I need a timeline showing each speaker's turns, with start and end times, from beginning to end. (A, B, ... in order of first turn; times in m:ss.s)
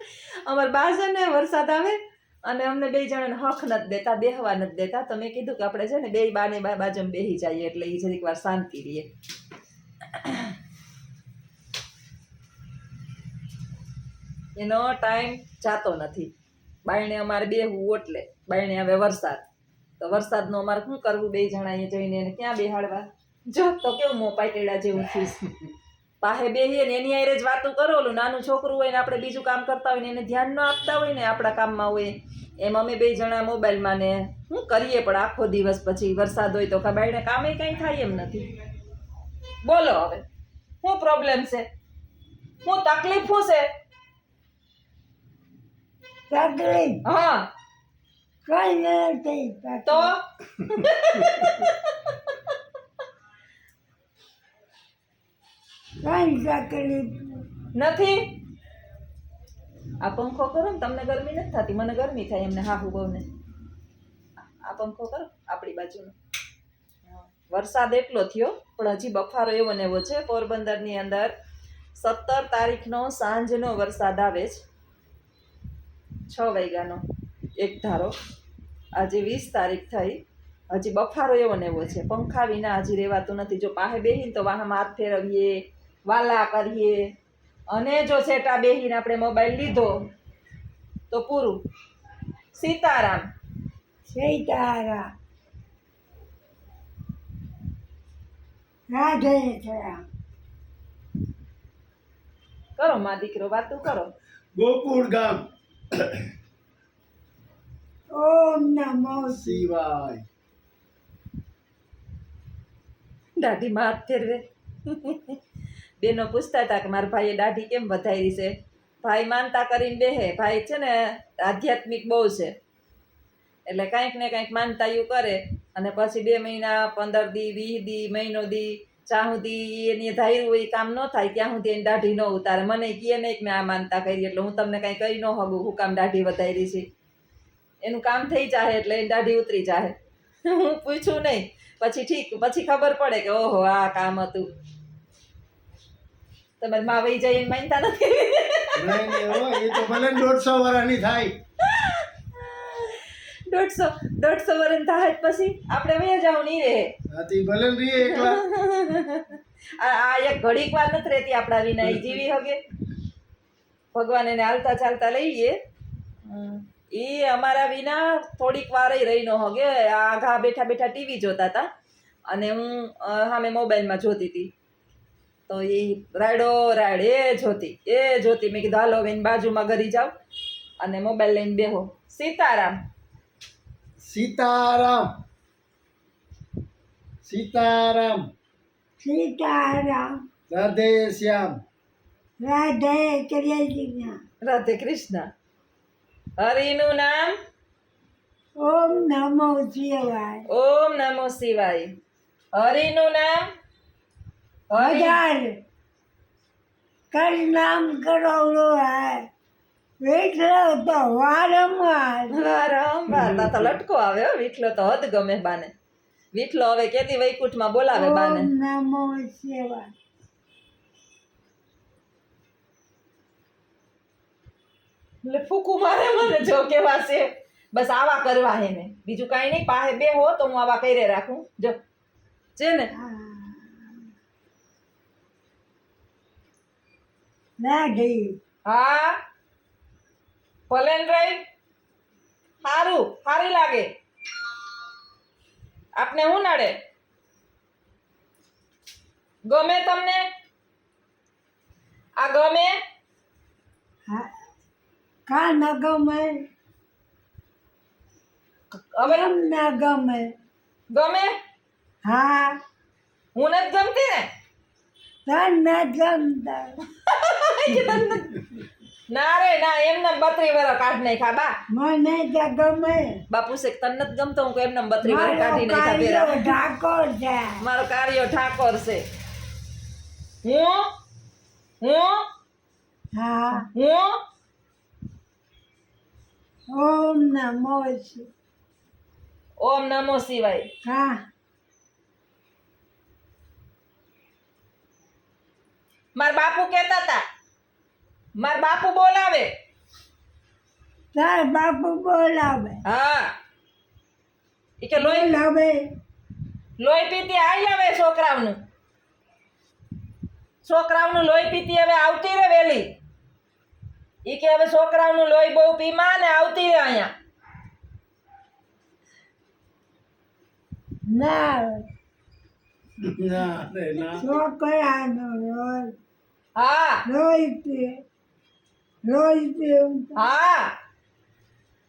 0:00.4-0:09.1 A
0:10.1-0:10.5 A
0:14.6-0:16.3 A
0:16.8-0:19.4 A
0:20.0-0:25.4 A
0:26.2-0:38.5 A
0:39.6-0:40.2 A
0:40.8-0:41.6 A
0:42.6-0:43.7 A
0:46.3-0:47.0 B
0:47.0-0:47.5 A
0:48.4-0:50.1 B
0:49.8-0:52.3 A
0:56.0-0:57.4 B
0:57.7-0:58.3 A
1:00.0-1:03.2 A
1:04.6-1:06.1 A
1:07.0-1:11.3 A
1:12.0-1:14.6 A
1:16.3-1:17.0 A
1:17.6-1:18.1 A
1:19.0-1:20.2 A
1:20.7-1:27.0 A
1:27.7-1:29.9 A
1:31.1-1:31.6 A
1:32.5-1:33.2 A
1:34.1-1:35.0 B
1:38.9-1:40.0 B
1:42.8-1:44.1 A
1:44.6-1:45.4 C
1:48.1-1:49.6 B
1:49.3-1:50.2 C
1:53.4-1:55.4 A
1:56.0-2:02.5 A
2:03.7-2:16.8 A
2:17.8-2:19.9 A
2:20.5-2:24.5 A
2:26.6-2:30.2 A
2:28.8-2:31.3 C
2:31.6-2:36.9 A
2:37.1-2:38.4 C
2:38.0-2:42.6 A
2:43.9-2:45.6 A
2:46.2-2:51.7 A
2:52.3-2:54.5 A
2:55.5-3:00.1 A
3:00.8-3:02.7 A
3:04.0-3:05.0 C
3:07.2-3:08.2 C
3:09.0-3:10.1 B
3:10.5-3:11.5 C
3:12.4-3:14.1 B
3:14.4-3:15.3 A
3:16.4-3:17.3 A
3:18.6-3:20.4 B
3:20.5-3:21.9 A
3:22.6-3:23.5 A
3:24.7-3:25.2 A
3:24.8-3:25.5 B
3:27.1-3:29.2 B
3:30.0-3:32.3 B
3:32.3-3:35.7 A
3:33.2-3:33.6 C
3:36.3-3:38.5 A
3:37.9-3:39.9 B
3:45.2-3:51.8 A
3:52.6-3:52.9 A
3:53.0-3:54.0 B
3:57.6-3:58.3 B
3:58.6-3:59.2 A
4:00.7-4:01.4 A
4:02.6-4:03.9 A
4:06.0-4:06.7 A
4:09.5-4:10.2 A
4:12.2-4:12.7 A
4:15.3-4:16.4 B
4:18.9-4:19.2 A
4:19.0-4:20.3 B
4:20.9-4:21.3 A
4:22.0-4:22.5 B
4:23.3-4:24.3 A
4:25.2-4:26.7 B
4:27.1-4:28.4 A
4:29.1-4:31.5 A
4:31.7-4:33.2 B
4:33.3-4:36.5 A
4:35.0-4:37.6 B
4:37.6-4:39.0 A
4:40.4-4:40.8 A
4:41.8-4:42.2 A
4:43.2-4:43.6 B
4:43.7-4:44.2 A
4:46.7-4:48.2 B
4:49.6-4:50.7 A
4:50.8-4:51.2 B
4:56.2-4:57.2 A
4:58.4-4:59.5 A
5:01.1-5:02.8 B
5:02.8-5:03.3 A
5:04.8-5:05.4 A
5:05.0-5:05.8 B
5:06.8-5:08.6 A
5:10.6-5:12.9 A
5:14.2-5:17.1 A
5:21.1-5:21.8 B
5:23.0-5:24.3 C
5:24.2-5:25.9 B
5:26.6-5:27.0 A
5:27.0-5:28.0 B
5:29.0-5:30.2 B
5:30.2-5:30.7 A